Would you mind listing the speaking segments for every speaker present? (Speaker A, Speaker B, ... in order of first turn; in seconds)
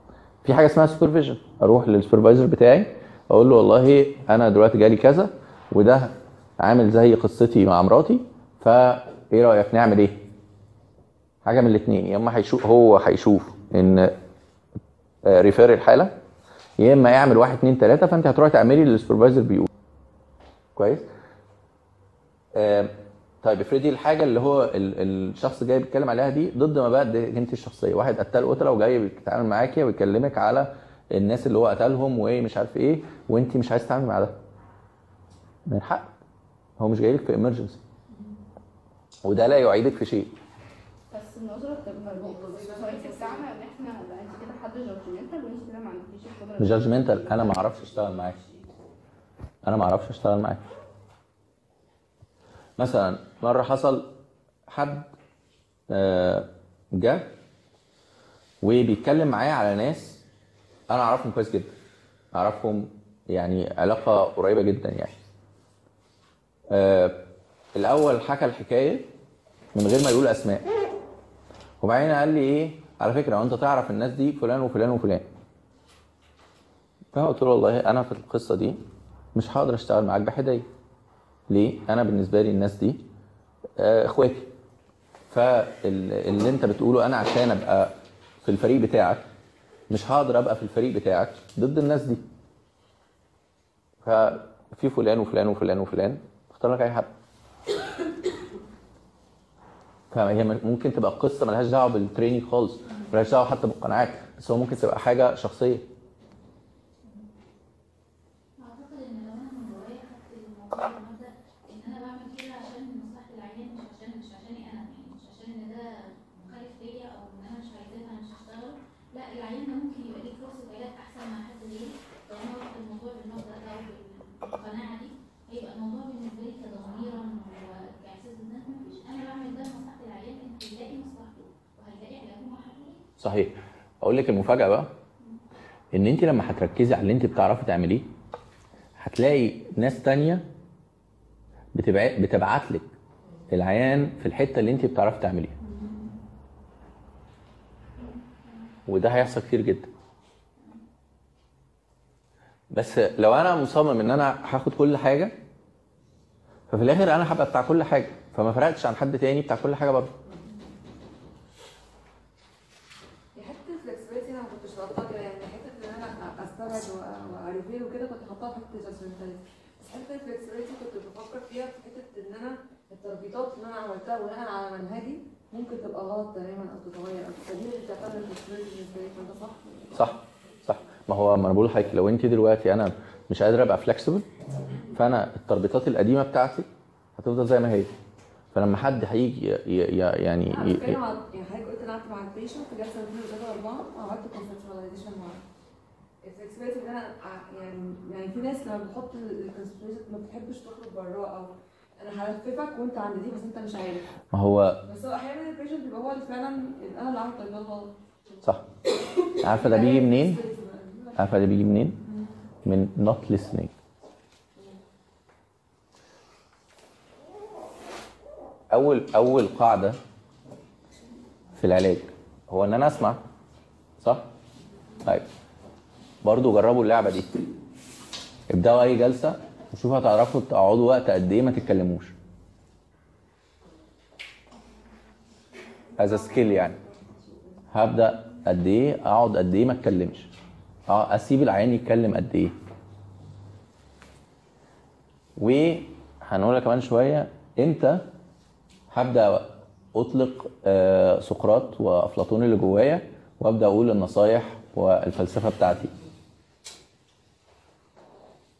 Speaker A: 0.4-10.2, 11.4-14.1, 15.2-16.1, 16.8-19.7, 20.8-21.0, 22.5-34.4, 35.7-36.1, 36.8-37.8, 39.2-40.3, 46.6-48.4, 49.6-50.6, 52.8-54.1, 54.7-55.1, 55.9-57.3, 58.6-60.2, 60.9-61.7, 62.3-65.1, 66.7-67.2, 67.8-69.1, 69.7-70.7, 71.8-75.2, 77.1-78.8, 79.3-80.7, 81.5-83.0, 83.8-84.5, 85.3-89.2, 89.9-92.2, 94.0-97.1, 100.1-105.8, 133.2-134.9, 135.9-138.1, 139.0-140.4, 141.7-142.9, 143.5-145.6, 148.9-149.9, 152.7-155.3, 156.7-160.1, 179.9-184.2, 184.9-186.7, 187.2-187.9, 188.5-191.0, 204.3-204.8, 209.4-210.4, 211.2-212.0, 212.6-213.7, 218.7-220.0, 221.6-223.2, 224.0-224.3, 226.2-227.3, 228.5-232.1, 236.0-236.8, 237.7-240.3, 240.9-242.5, 245.4-248.1, 248.9-255.9
Speaker B: 41.1-48.5
Speaker C: 42.1-43.5, 163.3-179.9, 190.5-195.4, 196.2-204.1, 204.8-207.9, 209.4-211.3, 236.0-237.4
Speaker D: 108.6-133.0, 145.7-146.0